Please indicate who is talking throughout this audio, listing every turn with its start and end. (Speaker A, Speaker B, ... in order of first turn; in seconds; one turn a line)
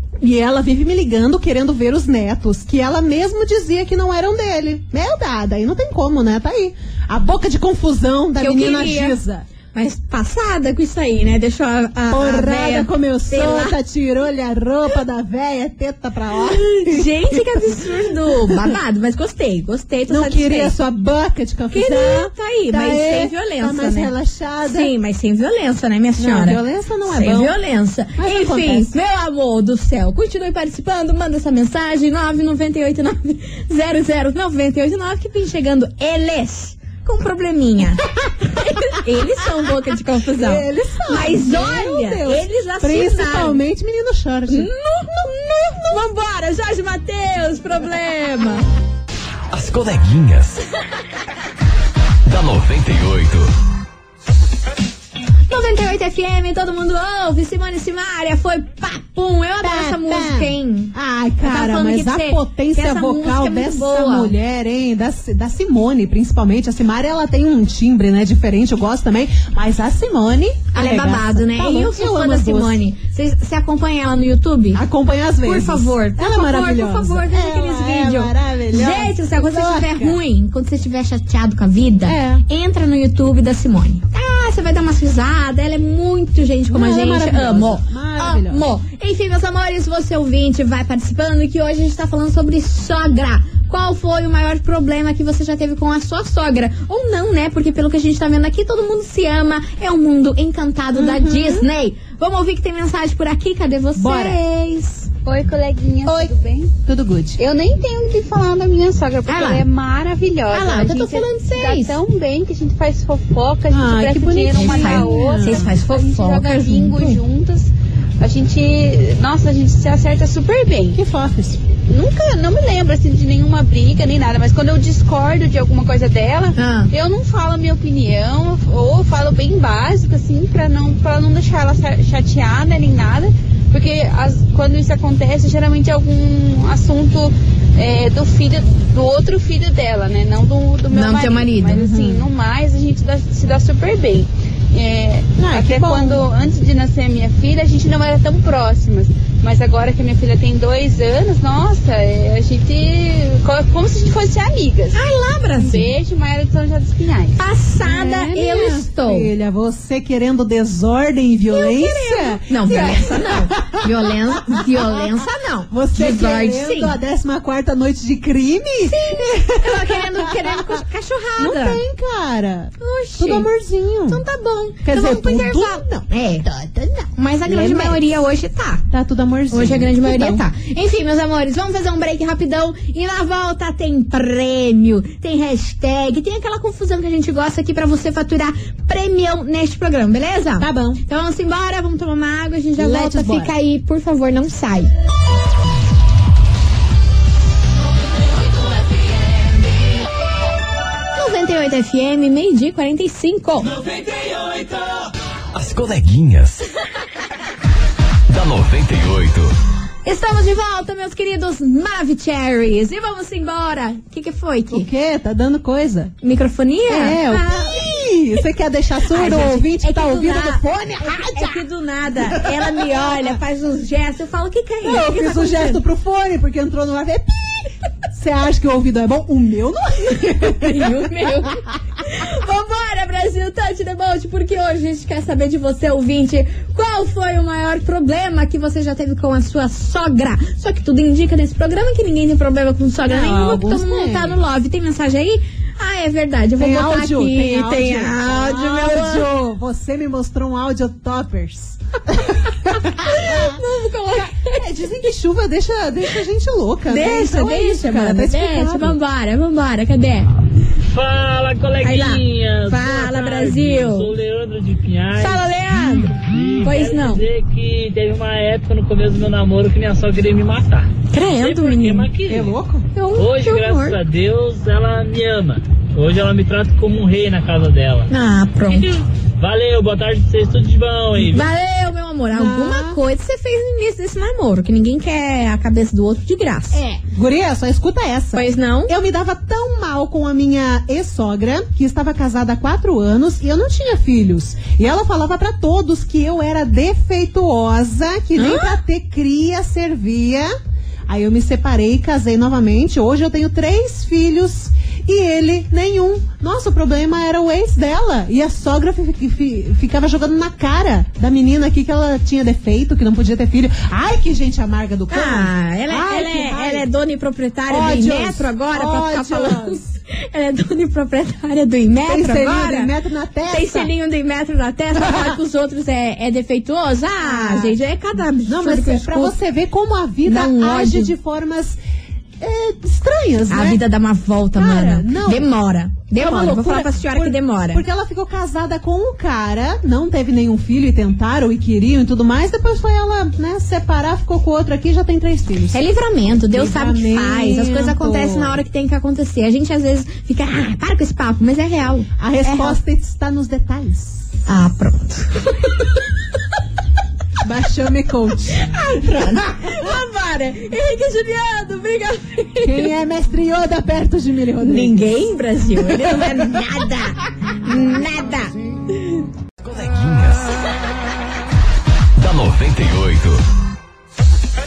Speaker A: 0.2-9.5
Speaker B: 8.4-9.2
Speaker B: 9.7-13.8
Speaker A: 12.1-18.8
Speaker B: 16.5-20.7
Speaker A: 20.1-24.9
Speaker B: 21.7-24.1
Speaker B: 24.6-43.6
Speaker A: 26.2-27.6
Speaker A: 28.2-28.9
Speaker A: 40.3-44.7
Speaker B: 44.5-48.6
Speaker C: 49.5-50.6
Speaker C: 52.2-53.5
Speaker B: 55.5-64.3
Speaker A: 59.6-72.8
Speaker B: 70.7-74.8
Speaker A: 74.7-80.2
Speaker B: 75.4-104.4
Speaker A: 82.0-82.5
Speaker A: 86.7-88.6
Speaker A: 100.9-101.7
Speaker A: 104.0-105.1
Speaker D: 105.2-106.7
Speaker A: 106.1-106.3
Speaker A: 106.8-107.4
Speaker D: 107.4-121.0
Speaker B: 109.3-109.7
Speaker B: 110.5-112.0
Speaker A: 113.7-115.8
Speaker B: 114.5-117.2
Speaker A: 120.9-121.6
Speaker D: 121.8-155.0
Speaker B: 126.6-126.9
Speaker B: 140.9-142.1
Speaker A: 141.7-142.2
Speaker A: 145.4-146.3
Speaker B: 154.9-155.9
Speaker D: 155.6-157.4
Speaker B: 157.4-159.3
Speaker A: 157.8-165.1
Speaker B: 161.5-167.0
Speaker A: 165.7-170.8
Speaker B: 168.9-171.8
Speaker A: 171.4-174.2
Speaker B: 172.8-173.5
Speaker B: 174.1-176.4
Speaker A: 174.8-178.1
Speaker B: 177.2-178.8
Speaker A: 178.9-180.4
Speaker B: 179.5-194.9
Speaker A: 190.6-191.0
Speaker A: 192.8-193.5
Speaker B: 201.2-203.7
Speaker C: 205.5-206.6
Speaker C: 208.3-209.6
Speaker B: 210.1-214.9
Speaker A: 214.7-216.1
Speaker B: 216.2-217.8
Speaker A: 216.9-221.6
Speaker B: 219.1-225.8
Speaker A: 222.2-223.3
Speaker A: 224.8-231.5
Speaker B: 230.6-249.3
Speaker A: 243.1-244.4
Speaker A: 246.6-253.6
Speaker B: 253.0-254.6
Speaker A: 254.1-259.0
Speaker B: 256.9-260.3
Speaker E: 260.9-265.5
Speaker B: 261.8-264.1
Speaker B: 265.2-267.2
Speaker E: 266.2-272.6
Speaker B: 271.1-272.1
Speaker A: 272.3-272.9
Speaker B: 272.9-274.0
Speaker E: 273.2-278.1
Speaker B: 278.1-278.9
Speaker E: 278.7-281.5
Speaker B: 281.2-286.8
Speaker A: 282.3-283.0
Speaker A: 286.7-300.5
Speaker B: 288.4-288.9
Speaker B: 298.4-298.8
Speaker A: 301.1-316.9
Speaker B: 315.1-322.9
Speaker A: 317.7-319.8
Speaker A: 322.0-323.9
Speaker B: 323.5-329.4
Speaker A: 325.0-325.4
Speaker A: 327.2-327.8
Speaker A: 328.5-331.8
Speaker B: 330.3-331.1
Speaker A: 332.4-333.8
Speaker B: 333.5-337.8
Speaker A: 334.6-335.5
Speaker A: 336.1-345.9
Speaker B: 345.7-352.8
Speaker A: 346.5-348.6
Speaker A: 352.2-354.4
Speaker B: 354.5-355.7
Speaker A: 357.4-359.9
Speaker B: 358.6-362.9
Speaker A: 362.6-365.1
Speaker B: 364.6-369.2
Speaker A: 365.8-366.9
Speaker C: 369.6-370.5
Speaker C: 372.2-373.4